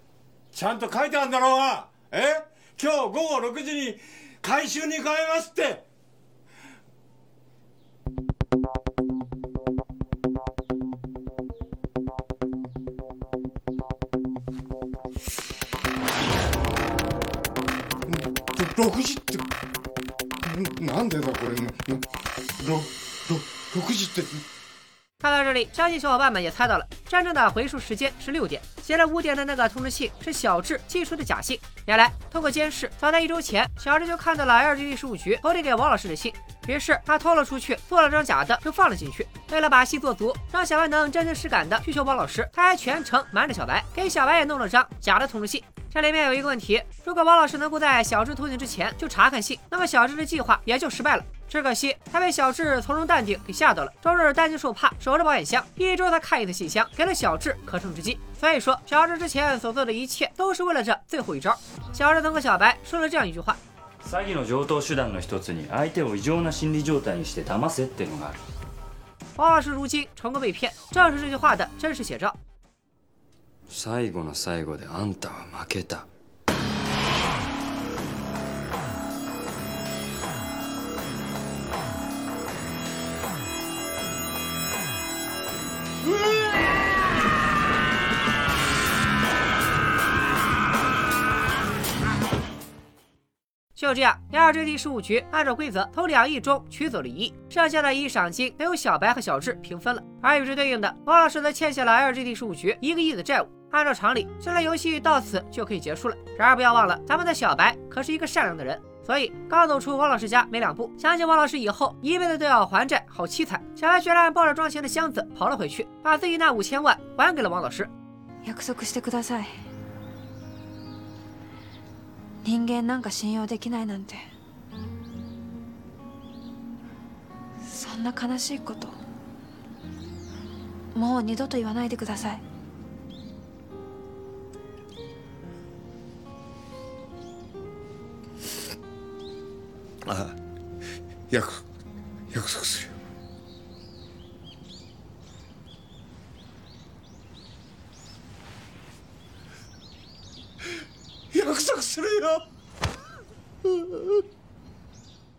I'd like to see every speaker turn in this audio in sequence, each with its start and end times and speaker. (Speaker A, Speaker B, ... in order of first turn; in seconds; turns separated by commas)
Speaker A: 0.5-5.8, Speaker A: 18.1-19.4, Speaker A: 20.4-22.0, Speaker A: 22.6-24.4, Speaker B: 25.2-63.6, Speaker C: 64.0-68.4, Speaker B: 69.3-72.4, Speaker C: 73.7-76.1, Speaker B: 93.7-117.9, Speaker D: 118.4-119.6, Speaker D: 122.4-124.3, Speaker D: 127.6-129.0, Speaker D: 130.9-132.4, Speaker A: 140.0-140.3, Speaker A: 141.3-141.6, Speaker A: 142.3-142.9, Speaker A: 151.3-152.4, Speaker A: 153.7-154.2